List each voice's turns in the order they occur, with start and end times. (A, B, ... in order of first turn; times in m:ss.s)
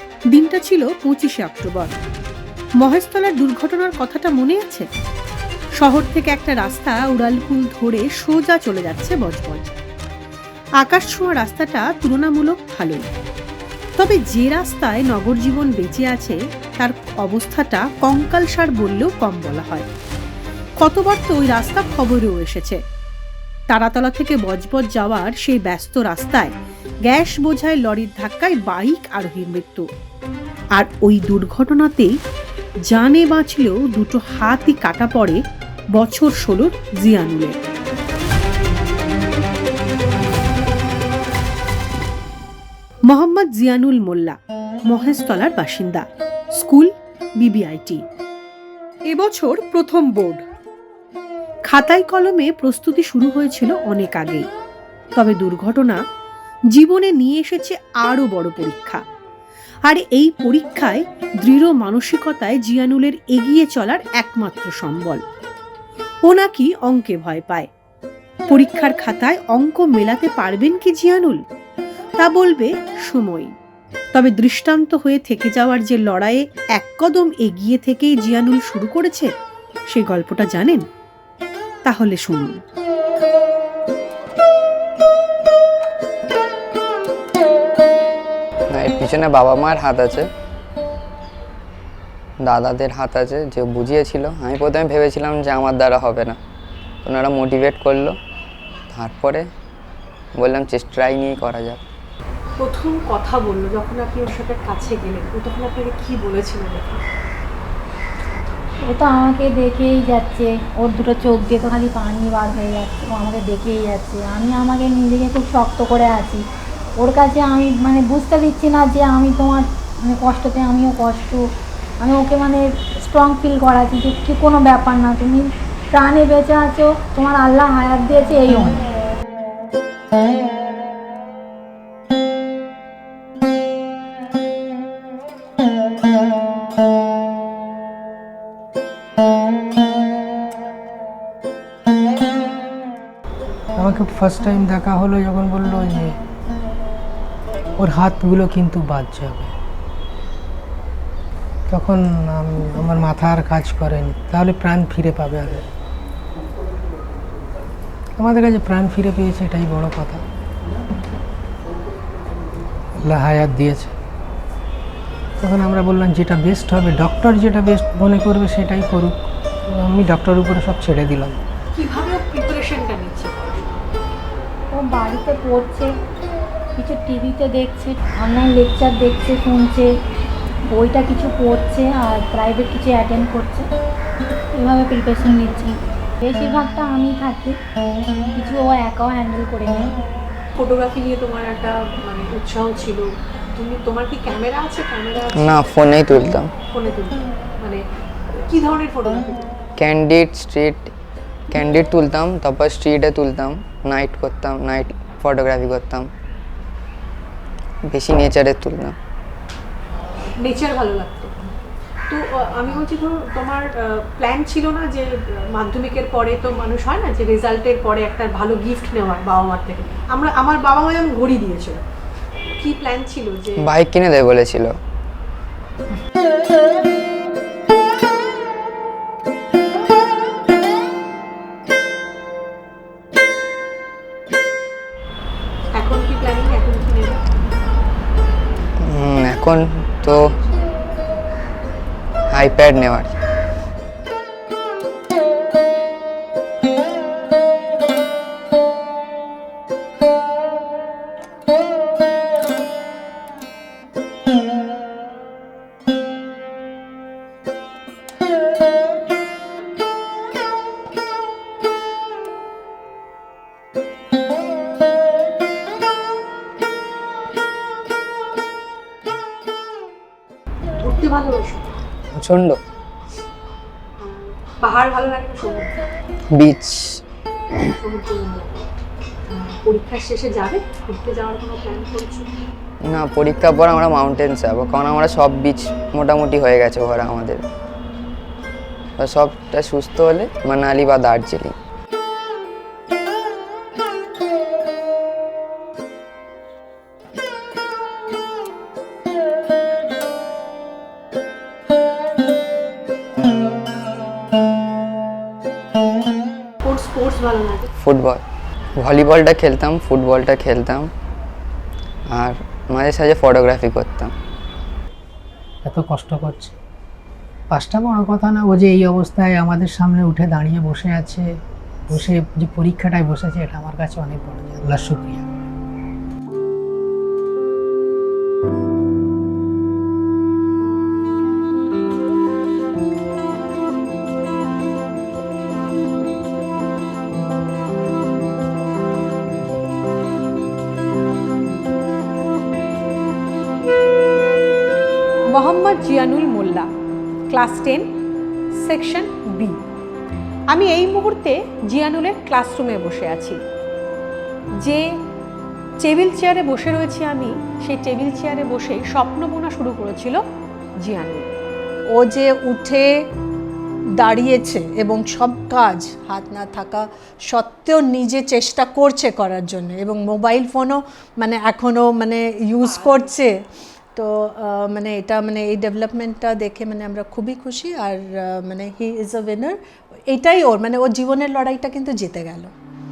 0:00.3-0:01.9 A
0:02.8-0:04.9 A
0:05.8-0:09.8 A
0:10.8-0:13.1 A
0:14.0-0:19.9 A
0:20.8-0:22.8 A
0:23.7-0:26.5 A
0:27.0-0:29.9 A
0:30.8-0:32.1 A
0:32.8-0:35.4 A
0:35.9-0:37.6 A
0:43.1-0:44.4 A
0:44.9-0:48.0 A
0:49.1-0:50.4 A
0:51.6-0:54.5 A
0:55.1-0:56.0 A
0:56.7-0:59.0 A
0:59.8-1:05.2 A
1:06.2-1:07.7 A
1:08.5-1:11.4 A
1:12.2-1:13.5 A
1:14.1-1:19.3 A
1:19.9-1:20.8 A
1:21.8-1:22.6 A
1:28.7-1:30.3 B
1:32.4-1:36.4 B
1:37.0-1:38.2 B
1:38.9-1:39.5 B
1:40.4-1:41.8 B
1:42.6-1:47.0 A
1:48.8-1:56.4 C
1:57.0-2:01.4 C
2:02.0-2:08.8 C
2:23.8-2:26.2 D
2:27.8-2:29.5 D
2:31.7-2:35.7 D
2:38.2-2:40.2 D
2:43.0-2:43.9 D
2:45.4-2:51.4 D
2:51.7-2:53.8 A
2:54.7-2:55.9 C
2:56.8-2:59.9 C
3:00.7-3:03.7 C
3:04.5-3:07.6 C
3:08.3-3:09.9 C
3:10.6-3:15.5 A
3:15.4-3:16.5 B
3:16.7-3:17.8 A
3:18.5-3:19.5 A
3:19.8-3:20.9 B
3:21.5-3:26.1 B
3:27.9-3:29.0 B
3:30.4-3:31.4 A
3:32.1-3:41.8 A
3:42.6-3:43.7 A
3:43.6-3:44.7 B
3:55.7-3:57.2 A
3:58.8-4:00.2 B
4:02.3-4:03.1 B
4:30.8-4:31.7 A
4:32.1-4:32.6 B
4:34.0-4:35.7 A
4:36.3-4:37.0 B
4:37.8-4:38.7 A
4:39.3-4:42.3 A
4:42.8-4:47.4 B
4:49.0-4:51.5 B
5:06.6-5:07.7 A
5:07.8-5:08.2 B
5:08.8-5:10.9 B
5:12.1-5:14.1 B
5:15.6-5:16.5 D
5:17.5-5:21.3 D
5:21.9-5:25.2 D
5:45.3-5:46.7 A
5:47.3-5:47.9 A
5:48.6-5:49.6 A
5:50.5-5:53.4 A
5:54.6-5:54.9 A
5:55.8-6:00.2 A
6:00.8-6:01.3 A
6:01.9-6:02.9 E
6:04.0-6:13.4 E
6:12.6-6:13.2 A
6:14.0-6:19.6 E
6:20.1-6:22.5 E